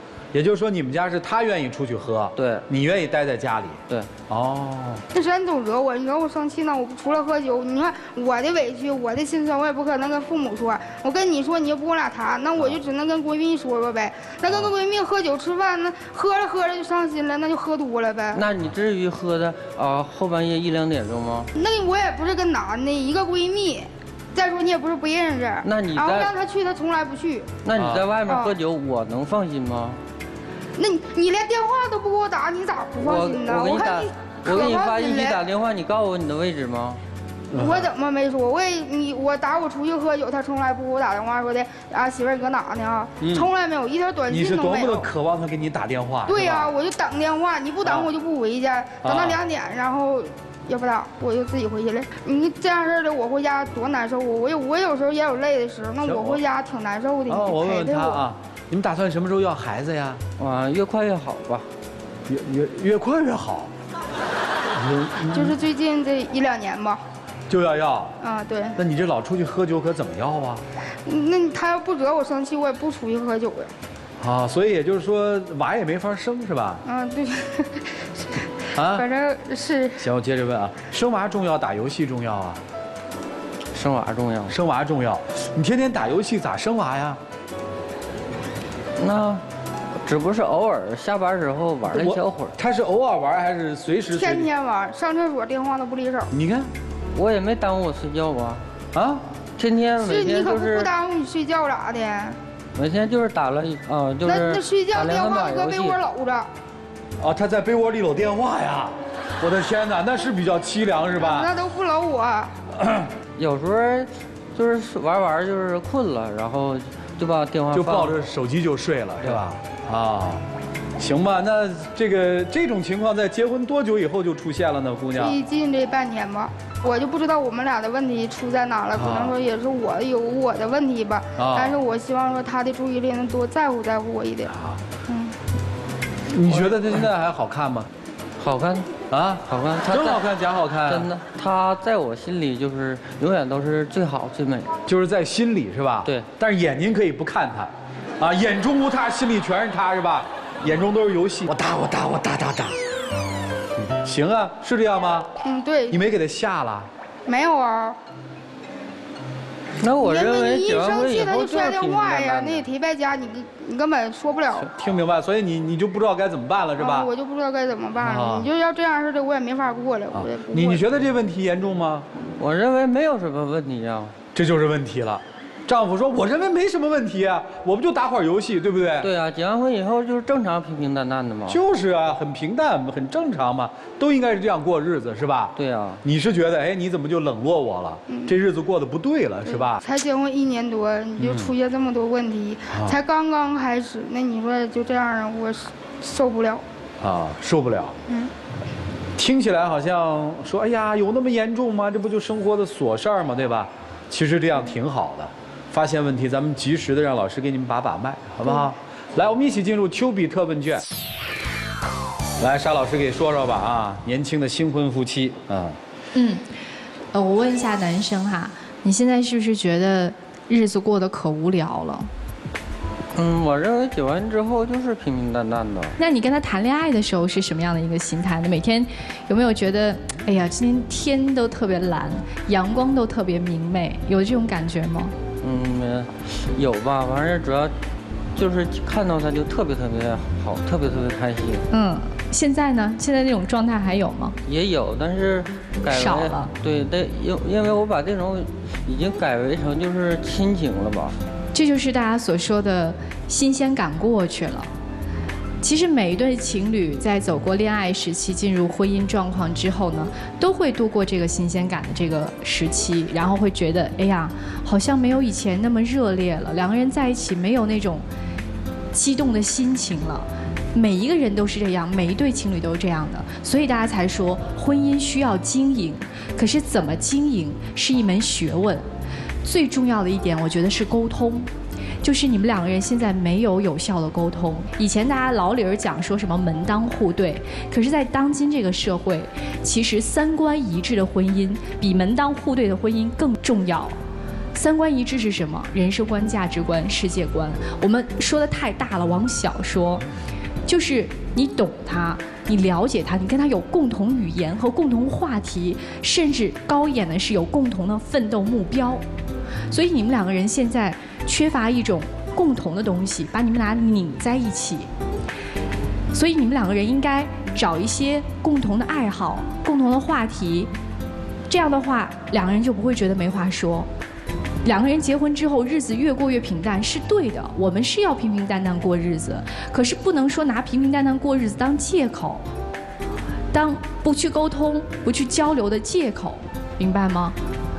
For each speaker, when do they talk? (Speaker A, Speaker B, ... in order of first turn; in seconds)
Speaker A: 0.3-5.0, 27.7-28.1, 37.5-37.9, 43.2-43.5, 44.3-46.7, 47.8-48.1, 49.0-49.4, 56.0-56.4, 57.3-60.2, 62.3-63.7, 64.7-65.6, 67.5-68.1, 68.8-70.6, 74.2-76.8, 78.8-79.0, 80.0-82.6, 84.5-87.2, 91.9-94.5, 96.3-96.7, 98.9-99.2, 107.2-111.5, 112.8-113.1, 117.7-120.4, 121.0-125.4, 128.9-129.3, 131.4-131.8, 134.5-134.8, 136.3-137.9, 139.1-141.1, 144.9-152.8, 153.9-155.3, 155.9-156.9, 164.8-167.1, 168.0-168.5, 170.1-172.1, 174.3-179.1, 181.5-189.8, 191.2-191.5, 192.7-193.0, 197.0-197.9, 199.2-210.8, 212.4-215.8
Speaker B: 2.4-2.6, 18.3-21.5, 25.6-26.3, 27.6-30.0, 33.0-37.0, 60.4-61.7, 83.7-84.6, 89.0-89.4, 90.0-92.5, 97.1-98.6, 99.6-100.9, 102.8-106.0, 113.4-118.2, 136.5-137.0, 138.4-140.2, 140.8-144.8, 159.8-162.7, 172.3-174.2, 179.0-181.6, 185.6-186.0, 223.1-226.0, 235.4-237.7, 238.3-241.7, 244.4-251.2
Speaker C: 5.1-18.4, 21.6-27.5, 28.3-28.5, 30.8-35.4, 37.6-45.1, 46.3-58.2, 65.3-67.0, 68.2-68.8, 71.0-73.7, 76.8-80.0, 94.2-96.3, 100.0-102.4, 104.2-106.5, 111.2-112.5, 125.1-134.5, 135.1-135.3, 155.4-156.0, 157.3-158.0, 160.0-164.7, 166.8-170.8, 188.1-188.4, 189.8-196.6
Speaker D: 216.1-216.4, 217.1-222.1, 226.0-235.1, 241.7-244.3, 245.9-246.5, 251.5-254.7, 255.6-268.0, 268.9-278.8, 279.4-281.5, 282.0-293.9, 294.5-300.0, 300.6-309.0, 309.7-314.9, 316.1-320.7, 321.5-323.9, 324.6-332.4, 333.5-337.4